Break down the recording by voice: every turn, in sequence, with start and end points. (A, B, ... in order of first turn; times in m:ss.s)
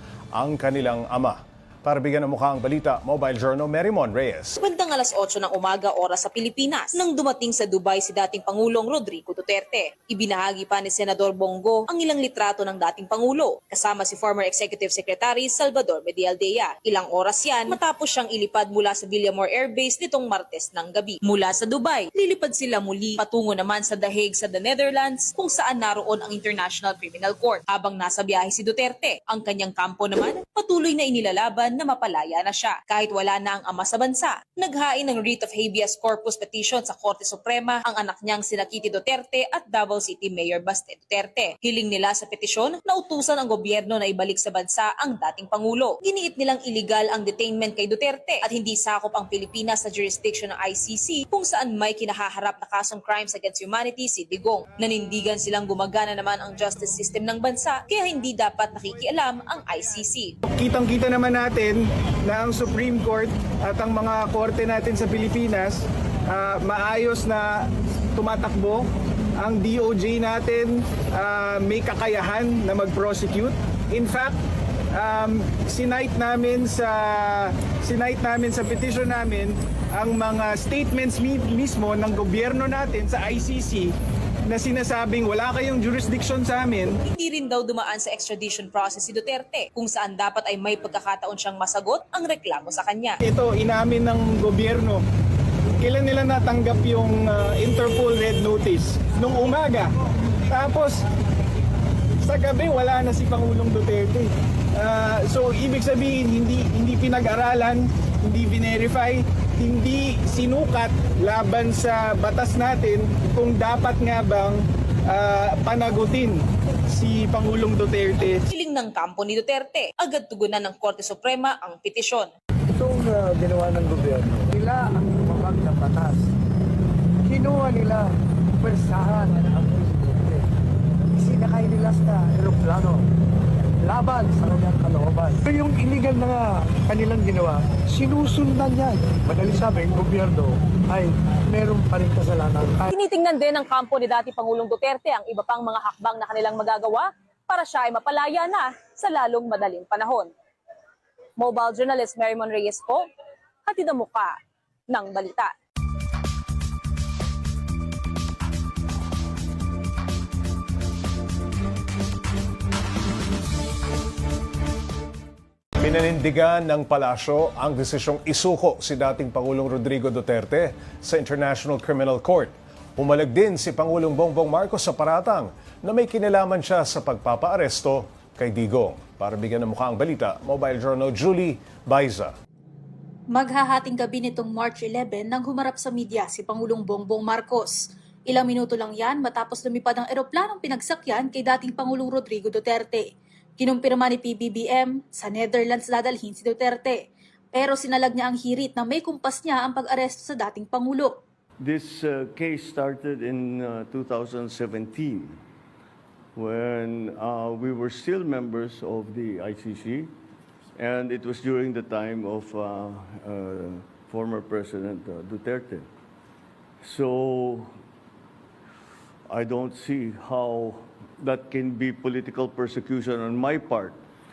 0:00.4-0:04.6 A
0:04.6-1:00.4 B
1:00.5-1:07.6 C
1:08.2-1:08.8 C
1:09.4-1:14.4 C
1:14.9-1:23.9 C
1:24.5-1:27.0 C
1:27.0-1:33.2 B
1:33.2-1:35.0 C
1:35.8-1:39.9 C
1:40.5-1:41.0 C
1:42.2-1:56.4 C
1:56.9-1:58.4 C
1:58.5-2:02.3 B
2:02.7-2:06.3 D
2:07.2-2:10.5 D
2:11.1-2:13.1 D
2:13.8-2:22.9 D
2:22.9-2:30.3 B
2:31.4-2:33.0 B
2:33.7-2:34.4 B
2:34.9-2:35.5 B
2:45.8-3:02.4 A
3:03.3-3:21.2 E
3:21.6-3:25.4 F
3:26.4-3:30.1 F
3:30.8-3:35.9 F
3:36.8-3:37.7 F
3:39.3-3:44.0 F